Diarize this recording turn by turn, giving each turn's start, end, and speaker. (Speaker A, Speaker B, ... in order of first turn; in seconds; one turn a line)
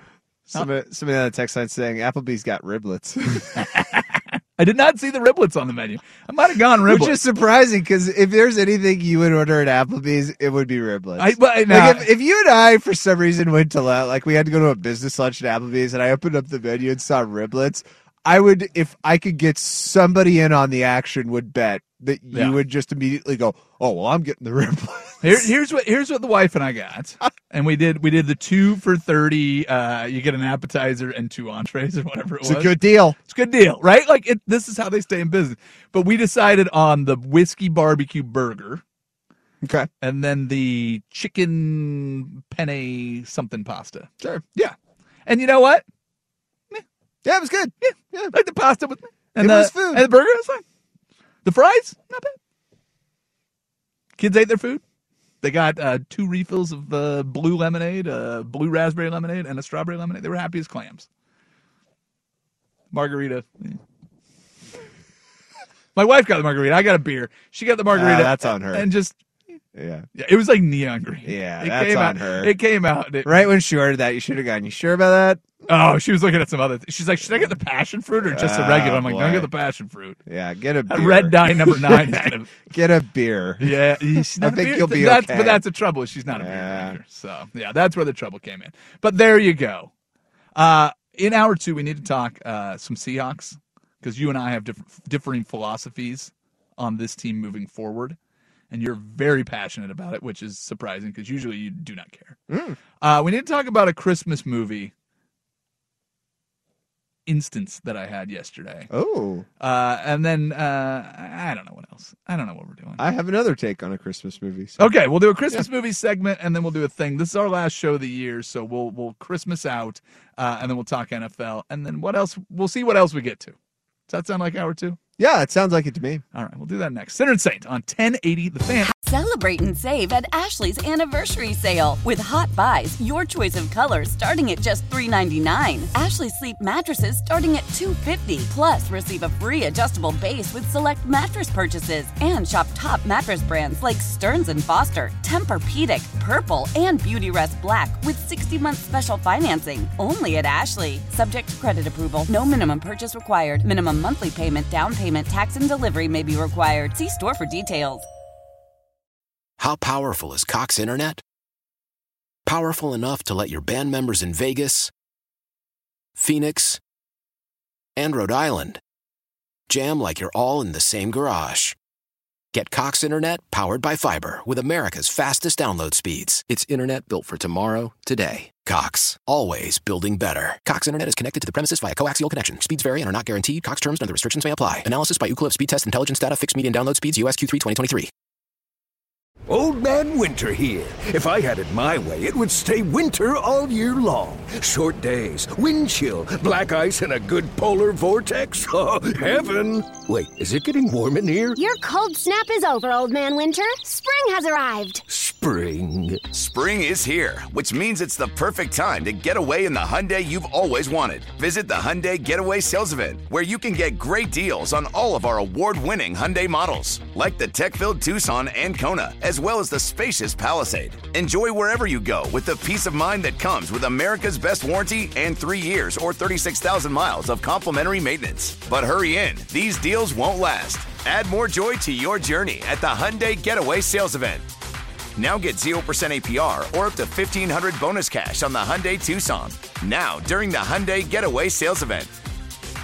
Speaker A: 0.5-3.6
Speaker B: 3.6-7.2
Speaker A: 6.8-25.5
Speaker B: 11.2-12.1
Speaker B: 22.3-22.6
Speaker B: 25.2-38.8
Speaker A: 32.4-33.2
Speaker A: 39.6-39.9
Speaker B: 40.0-44.7
Speaker A: 44.2-44.5
Speaker B: 45.2-45.8
Speaker A: 47.2-48.3
Speaker B: 47.8-50.6
Speaker A: 49.4-50.0
Speaker B: 51.4-52.3
Speaker B: 54.2-54.8
Speaker B: 55.4-61.1
Speaker B: 62.9-63.8
Speaker B: 65.9-69.2
Speaker A: 67.9-68.8
Speaker A: 69.7-70.0
Speaker B: 70.1-73.5
Speaker A: 71.2-72.5
Speaker A: 73.2-75.4
Speaker B: 75.7-80.2
Speaker A: 78.2-79.5
Speaker A: 80.2-85.6
Speaker B: 80.9-82.5
Speaker B: 83.6-89.9
Speaker A: 86.3-87.0
Speaker B: 90.5-98.2
Speaker B: 98.7-102.4
Speaker A: 102.5-102.8
Speaker B: 103.0-104.9
Speaker B: 107.2-108.9
Speaker A: 108.9-109.5
Speaker B: 109.6-113.0
Speaker A: 113.0-114.9
Speaker B: 114.8-123.5
Speaker B: 124.1-125.0
Speaker A: 125.2-126.2
Speaker B: 126.3-128.9
Speaker C: 128.9-158.1
Speaker D: 159.6-161.2
Speaker D: 162.4-164.9
Speaker D: 166.2-166.8
Speaker D: 167.9-168.8
Speaker D: 169.7-171.8
Speaker D: 172.5-188.1
Speaker E: 189.5-201.6
Speaker F: 201.6-205.0
Speaker E: 205.1-206.3
Speaker G: 206.3-234.5
Speaker G: 235.2-242.2